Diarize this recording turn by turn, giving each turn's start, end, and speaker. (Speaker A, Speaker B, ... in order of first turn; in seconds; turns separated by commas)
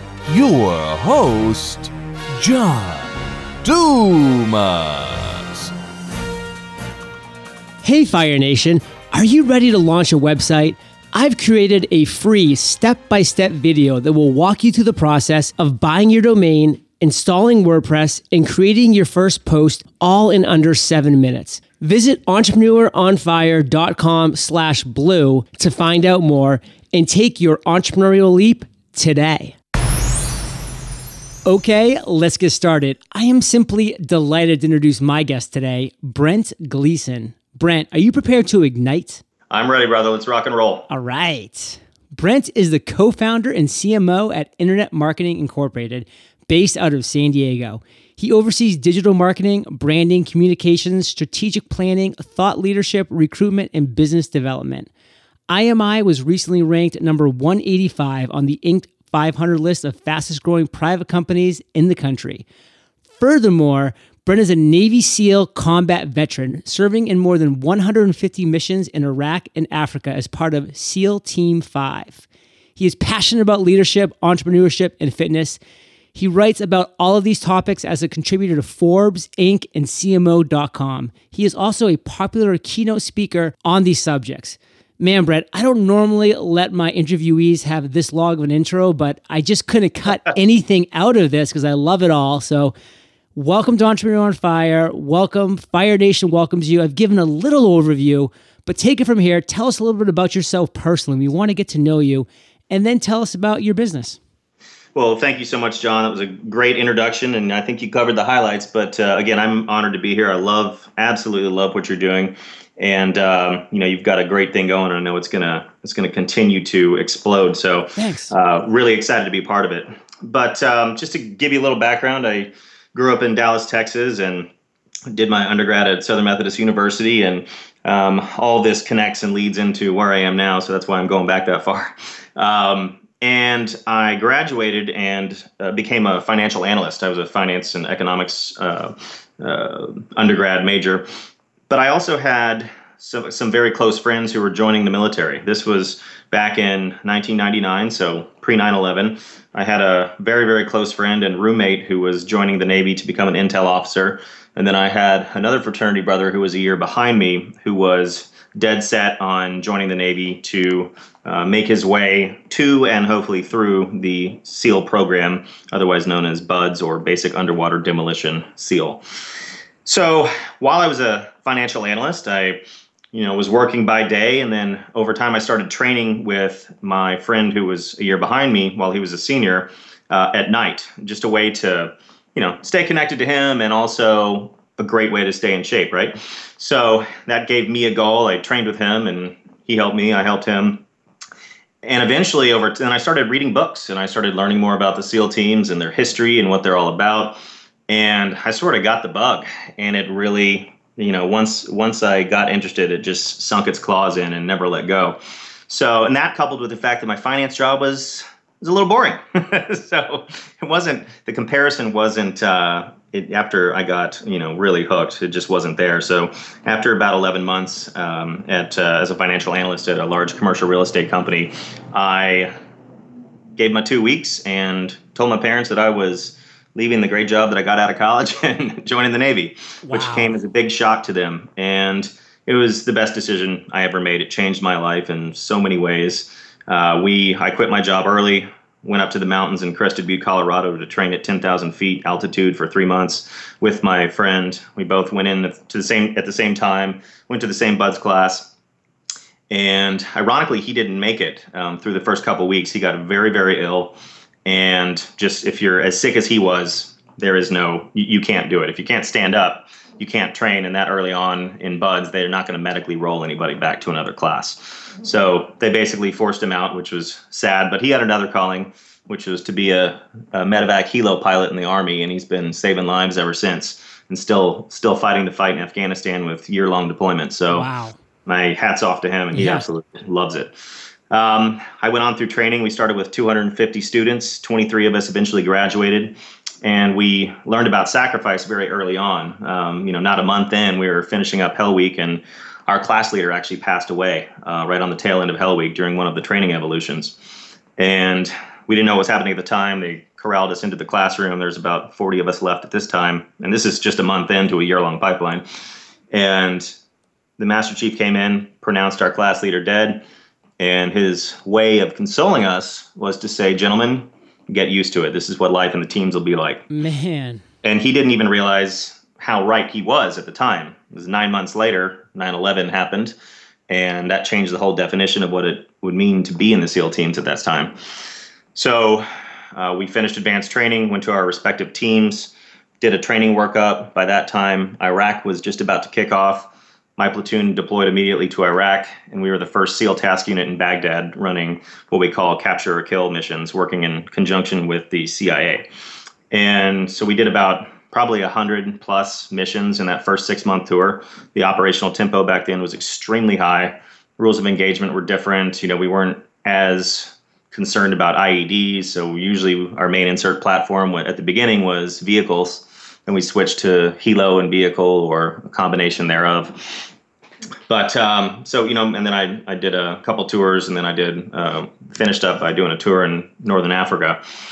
Speaker A: 0.3-3.1, Speaker A: 3.6-5.7, Speaker B: 7.8-29.6, Speaker B: 31.5-39.2, Speaker C: 39.5-40.9, Speaker B: 40.9-54.9, Speaker B: 55.5-62.5, Speaker B: 63.2-75.6, Speaker B: 76.2-92.7, Speaker B: 93.3-104.2, Speaker C: 105.0-124.5, Speaker B: 118.0-118.3, Speaker C: 125.1-141.1, Speaker C: 141.7-169.0, Speaker C: 169.8-172.6, Speaker C: 173.1-190.8, Speaker C: 191.8-222.5, Speaker C: 223.6-248.5, Speaker B: 229.9-230.4, Speaker C: 249.5-253.9, Speaker C: 254.4-277.7, Speaker B: 277.5-278.0, Speaker C: 278.3-280.6, Speaker B: 279.3-279.6, Speaker C: 281.1-297.2, Speaker C: 297.8-305.4, Speaker C: 306.1-306.7, Speaker C: 307.4-310.0, Speaker C: 310.6-316.7, Speaker B: 316.7-317.4, Speaker C: 317.6-323.1, Speaker C: 323.7-327.8, Speaker C: 328.5-345.7, Speaker C: 346.3-366.9, Speaker C: 367.7-374.2